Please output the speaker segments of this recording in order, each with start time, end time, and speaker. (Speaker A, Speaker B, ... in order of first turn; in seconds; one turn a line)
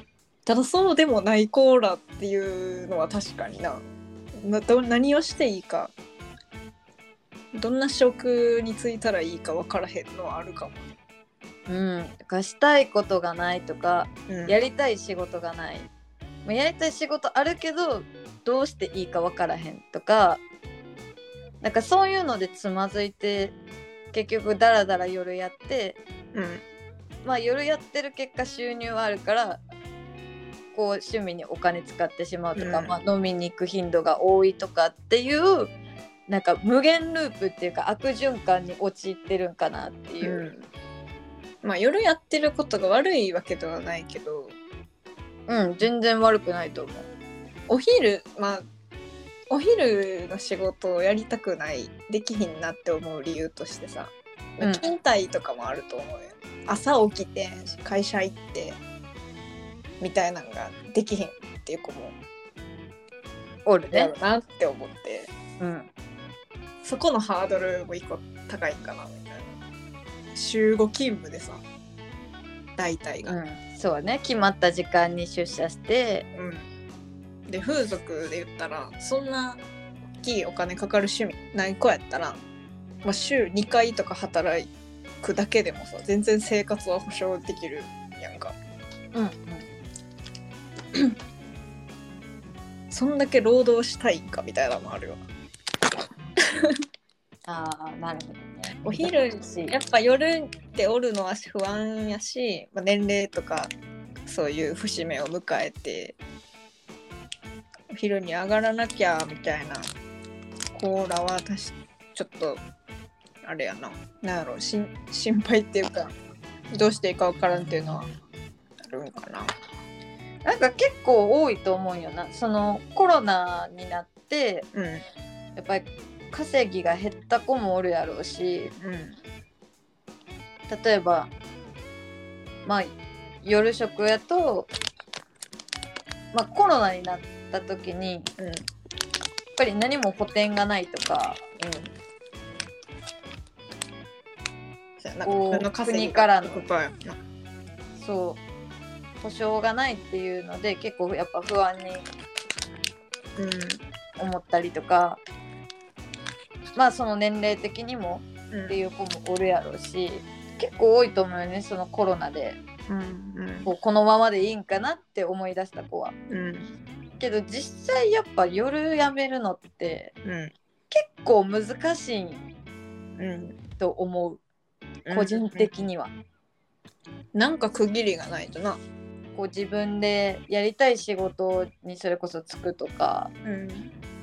Speaker A: 0.5-3.8
Speaker A: 4.4-5.9
Speaker A: 7.5-10.9
Speaker B: 11.7-15.9
Speaker A: 14.3-14.6
Speaker B: 16.4-20.4
Speaker B: 21.6-23.6
Speaker B: 24.1-26.0
Speaker A: 26.3-26.6
Speaker B: 27.2-29.6
Speaker B: 30.7-35.8
Speaker A: 32.6-33.0
Speaker B: 36.3-40.5
Speaker A: 40.2-40.7
Speaker A: 41.6-44.6
Speaker B: 45.5-47.1
Speaker A: 47.7-48.7
Speaker A: 49.5-58.8
Speaker B: 54.6-54.9
Speaker A: 60.0-62.2
Speaker B: 63.7-64.1
Speaker A: 63.9-65.3
Speaker B: 65.6-65.9
Speaker A: 66.8-69.5
Speaker A: 70.3-71.6
Speaker A: 72.8-73.4
Speaker B: 73.2-76.3
Speaker A: 76.3-76.7
Speaker A: 77.5-79.6
Speaker A: 80.2-82.4
Speaker A: 83.0-84.7
Speaker A: 85.2-88.6
Speaker B: 89.1-89.6
Speaker A: 92.9-95.2
Speaker B: 97.5-99.8
Speaker A: 98.8-103.7
Speaker A: 104.3-106.2
Speaker A: 107.9-109.9
Speaker A: 110.7-112.6
Speaker A: 113.4-116.1
Speaker A: 116.7-118.1
Speaker A: 118.8-119.5
Speaker B: 120.5-124.7
Speaker A: 124.7-125.0
Speaker B: 125.6-128.7
Speaker A: 128.8-129.2
Speaker B: 130.7-131.3
Speaker B: 132.7-134.7
Speaker B: 136.3-138.3
Speaker A: 138.4-138.7
Speaker B: 139.6-141.4
Speaker A: 141.6-141.9
Speaker A: 145.0-147.2
Speaker B: 145.2-146.6
Speaker B: 148.0-148.4
Speaker B: 149.2-152.0
Speaker A: 153.4-153.8
Speaker B: 154.2-155.2
Speaker B: 156.8-162.6
Speaker A: 158.5-158.8
Speaker A: 162.9-163.7
Speaker B: 163.7-166.2
Speaker A: 166.3-166.7
Speaker B: 167.2-170.1
Speaker A: 170.2-170.5
Speaker B: 170.9-172.4
Speaker A: 173.2-173.6
Speaker B: 173.8-174.4
Speaker A: 175.1-175.7
Speaker B: 175.1-176.1
Speaker A: 177.3-178.8
Speaker B: 179.3-183.3
Speaker A: 183.4-183.9